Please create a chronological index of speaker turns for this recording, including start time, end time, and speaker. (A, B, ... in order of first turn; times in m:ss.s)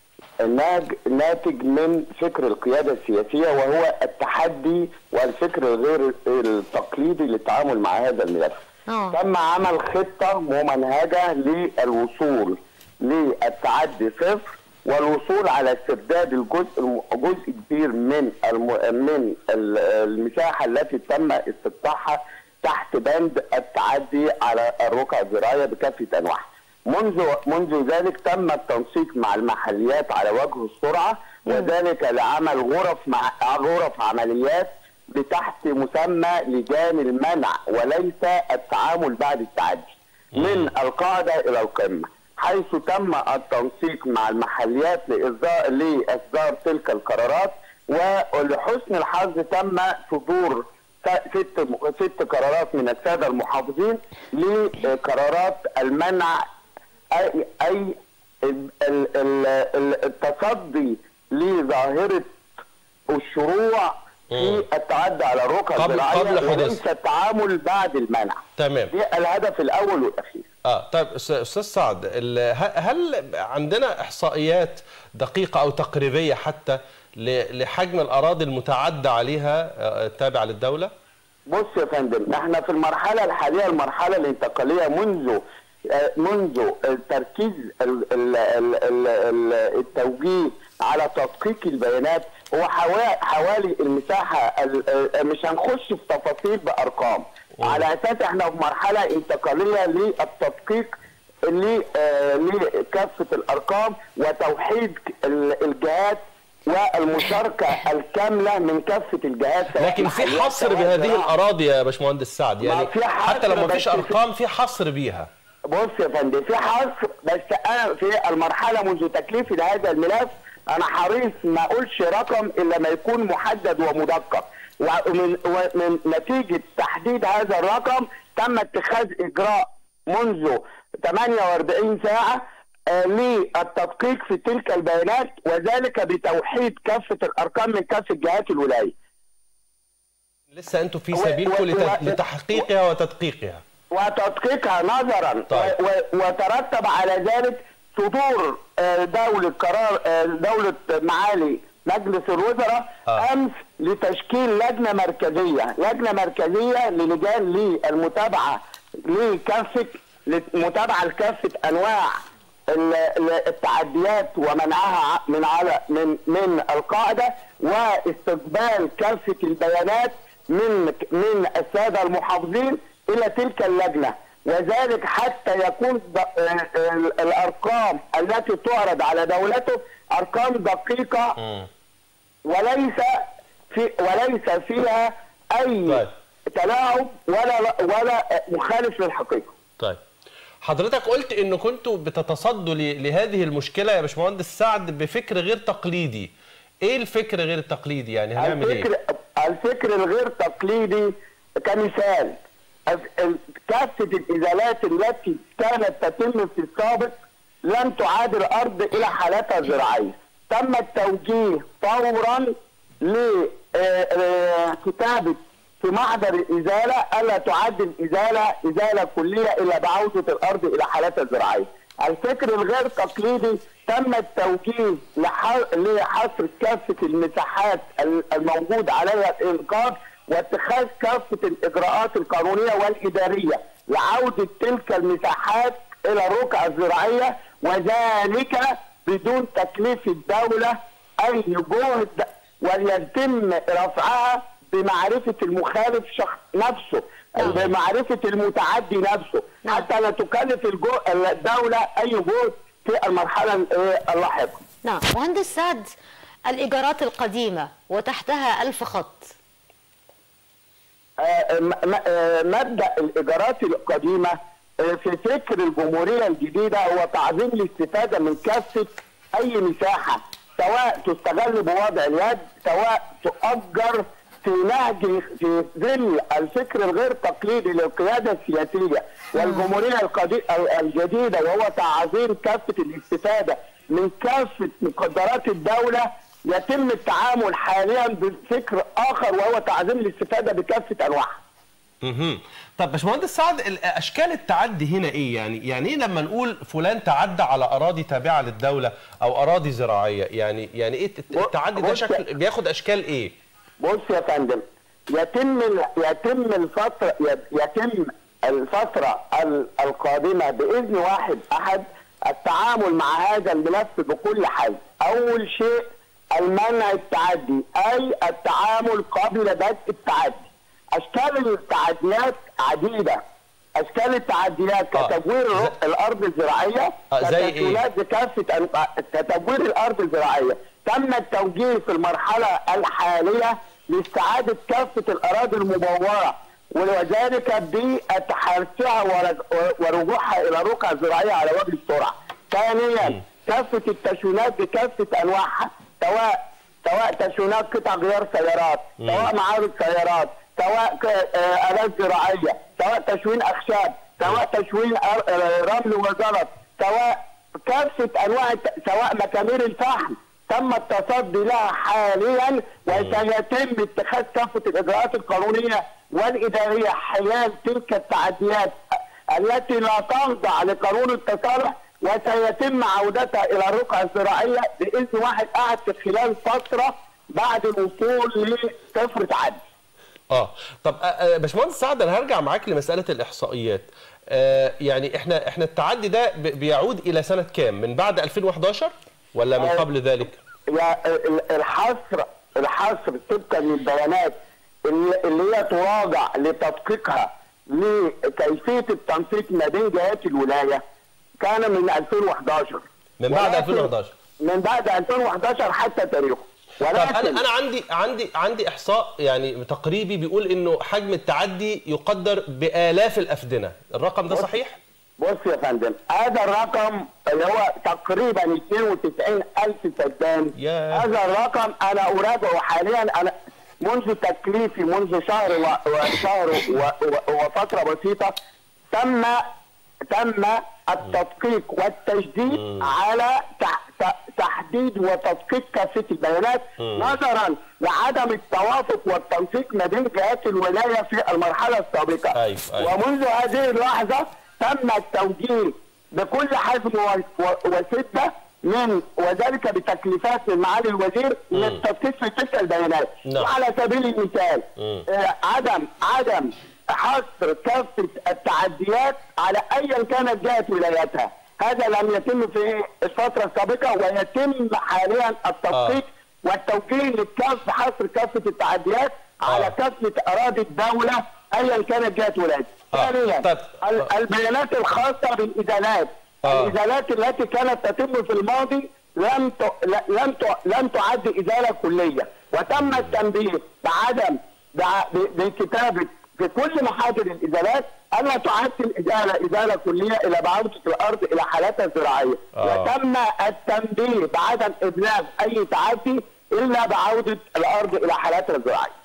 0:00.4-0:56.4 A
0:08.9-0:09.2 B
0:31.4-0:31.7 B
0:40.3-0:40.7 C
0:57.1-1:02.4 A
1:03.1-1:10.5 A
1:04.3-1:04.6 C
1:05.8-1:06.8 C
1:08.6-1:08.9 C
1:10.6-1:20.9 C
1:21.5-1:40.9 A
1:41.5-1:51.3 A
1:49.8-1:55.3 C
1:52.6-1:54.2 A
1:55.7-2:18.9 A
2:20.5-2:23.6 C
2:21.1-2:22.6 A
2:23.9-3:01.4 A
2:25.5-2:25.7 C
3:01.4-3:01.7 C
3:02.4-3:09.5 A
3:10.6-3:16.3 C
3:16.8-3:18.9 C
3:18.4-4:14.6 A
4:14.8-4:15.9 B
4:16.5-4:19.3 B
4:21.2-4:51.4 A
4:39.4-4:39.7 B
4:52.0-5:03.3 C
5:01.3-5:02.2 A
5:03.8-5:23.2 A
5:23.8-6:08.8 A
5:24.9-5:25.7 C
5:27.1-5:27.8 C
5:49.0-5:49.3 C
6:02.9-6:03.2 C
6:09.3-6:19.6 A
6:20.3-6:30.4 C
6:29.6-6:29.8 A
6:30.7-6:40.8 A
6:41.4-6:43.9 A
6:43.2-6:44.1 C
6:44.4-6:47.4 A
6:46.9-6:54.8 C
6:54.3-6:54.6 A
6:55.2-7:08.3 A
7:00.6-7:01.1 C
7:08.9-7:09.4 A
7:10.1-8:18.9 A
7:12.5-7:12.9 C
7:16.8-7:17.1 C
7:22.3-7:22.9 C
7:31.5-7:31.8 C
7:33.2-7:33.5 C
7:34.8-7:35.0 C
7:45.7-7:46.0 C
7:49.5-7:49.7 C
7:52.9-7:54.0 C
7:56.4-7:56.7 C
8:02.7-8:03.1 C
8:12.6-8:12.9 C